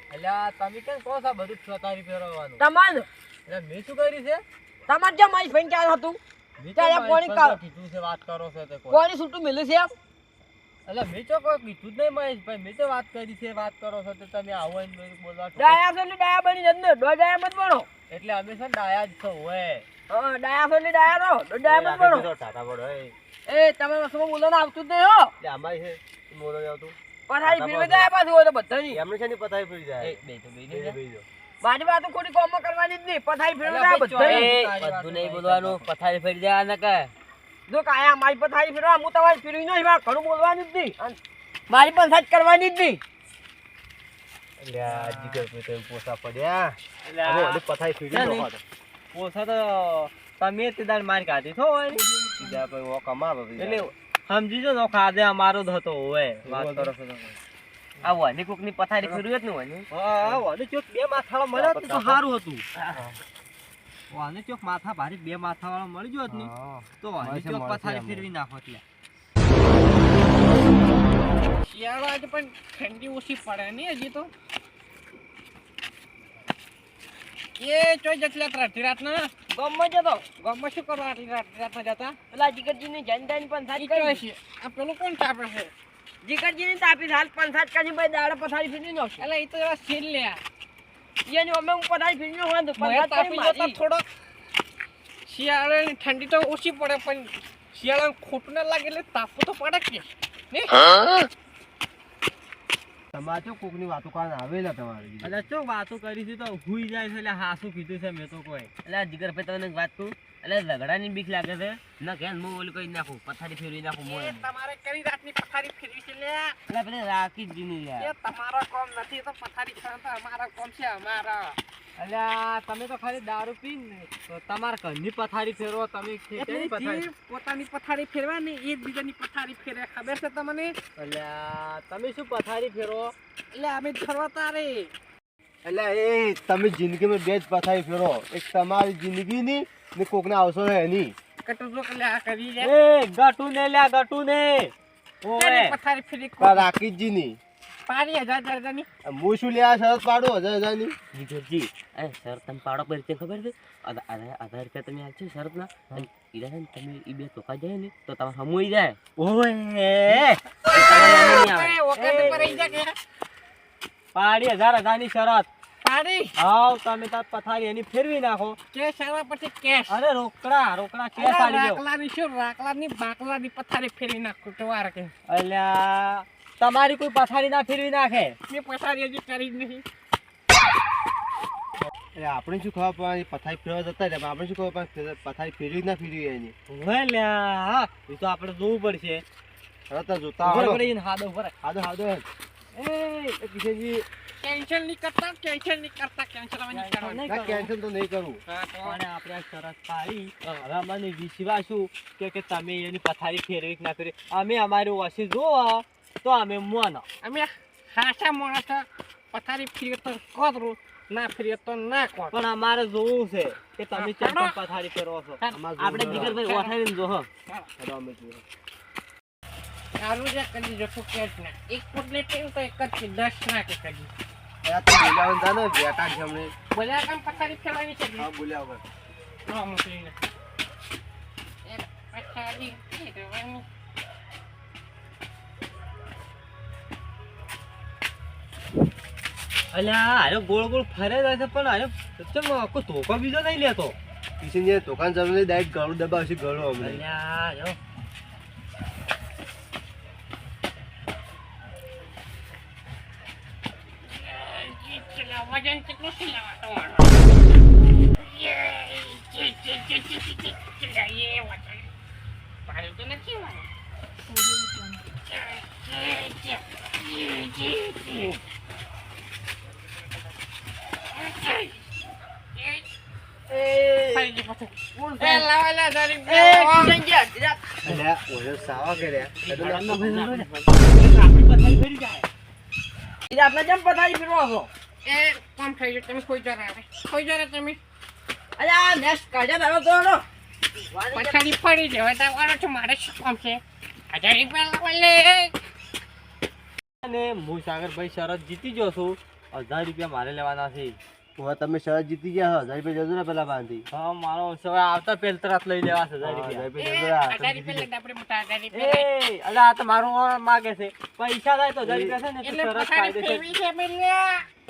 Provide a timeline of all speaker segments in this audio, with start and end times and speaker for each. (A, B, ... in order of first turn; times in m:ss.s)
0:00.1-0:02.6 A
0:02.6-0:03.1 B
0:03.5-0:04.4 A
0:04.9-0:06.2 B
0:06.6-0:09.0 A
0:06.8-0:07.6 B
0:08.9-0:09.9 B
0:10.9-0:15.8 A
0:15.6-0:17.9 B
0:18.1-0:19.8 A
0:20.1-0:22.3 B
0:21.6-0:23.1 C
0:23.4-0:25.3 B
0:25.4-0:28.1 C
0:27.3-0:29.0 B
0:28.9-0:31.2 C
0:30.0-0:31.0 B
0:31.6-0:37.1 B
0:33.6-0:35.8 A
0:37.7-0:41.2 B
0:41.7-0:43.0 B
0:44.6-0:48.6 C
0:44.8-0:45.4 A
0:47.0-0:48.5 A
0:49.1-0:52.0 A
0:52.2-0:53.9 C
0:53.6-0:56.9 A
0:56.4-0:57.3 C
0:58.0-0:59.9 B
0:59.9-1:02.6 A
1:01.5-1:02.2 C
1:04.1-1:08.8 A
1:06.3-1:08.3 C
1:11.6-1:14.3 D
1:17.6-1:19.3 D
1:19.5-1:20.3 B
1:20.3-1:22.2 D
1:22.3-1:24.2 B
1:23.7-1:25.7 D
1:26.2-1:29.3 B
1:29.2-1:30.4 D
1:31.2-1:33.8 B
1:32.8-1:34.0 D
1:35.2-1:41.2 D
1:43.1-1:45.4 C
1:45.2-1:48.7 A
1:48.8-1:54.5 B
1:54.0-1:56.6 D
1:56.7-1:58.1 B
1:58.0-2:01.6 D
2:02.0-2:07.1 A
2:06.4-2:10.8 D
2:11.0-2:13.1 A
2:13.5-2:14.9 D
2:15.6-2:21.1 C
2:21.4-2:22.7 D
2:22.6-2:24.7 A
2:25.2-2:25.8 A
2:25.4-2:26.7 D
2:26.4-2:27.4 C
2:27.9-2:28.9 D
2:29.0-2:30.9 C
2:31.1-2:39.0 B
2:39.2-2:40.4 A
2:40.7-2:42.9 D
2:40.7-2:42.4 B
2:41.9-2:42.5 A
2:44.1-2:45.5 A
2:45.8-2:46.3 D
2:46.4-2:48.6 A
2:48.7-2:50.0 D
2:49.9-2:51.8 A
2:51.2-2:55.1 D
2:55.3-2:58.4 A
2:58.5-2:59.8 D
3:02.0-3:06.5 C
3:06.7-3:09.2 A
3:09.9-3:10.9 C
3:10.4-3:11.5 A
3:11.6-3:12.2 C
3:12.7-3:14.0 A
3:14.4-3:17.2 D
3:16.7-3:17.7 A
3:17.3-3:18.4 C
3:18.5-3:19.0 D
3:18.8-3:27.0 A
3:27.2-3:32.3 D
3:32.3-3:35.4 A
3:33.9-3:34.5 D
3:35.4-3:36.8 D
3:35.5-3:36.4 C
3:35.8-3:36.9 B
3:36.0-3:37.2 A
3:37.8-3:38.4 C
3:40.0-3:44.1 D
3:44.6-3:46.5 C
3:46.7-3:48.3 D
3:48.2-3:48.8 C
3:49.4-3:50.2 D
3:51.6-3:53.6 D
3:59.7-4:03.9 A
4:04.4-4:07.0 C
4:06.8-4:07.8 A
4:14.0-4:17.2 D
4:18.1-4:21.9 D
4:22.7-4:23.7 D
4:25.3-4:28.4 D
4:31.1-4:31.9 D
4:32.6-4:32.8 D
4:33.5-4:34.3 B
4:34.1-4:37.0 D
4:35.0-4:35.5 B
4:36.2-4:37.8 B
4:37.8-4:40.2 C
4:39.3-4:42.2 A
4:39.7-4:40.5 B
4:43.3-4:44.7 B
4:45.0-4:47.8 D
4:48.6-4:51.4 B
4:51.1-4:53.6 D
4:54.1-4:55.6 D
4:57.0-5:01.0 A
5:01.4-5:03.8 C
5:03.9-5:06.6 A
5:06.2-5:07.9 C
5:06.8-5:09.1 D
5:08.7-5:13.5 A
5:11.8-5:12.2 C
5:12.4-5:14.4 D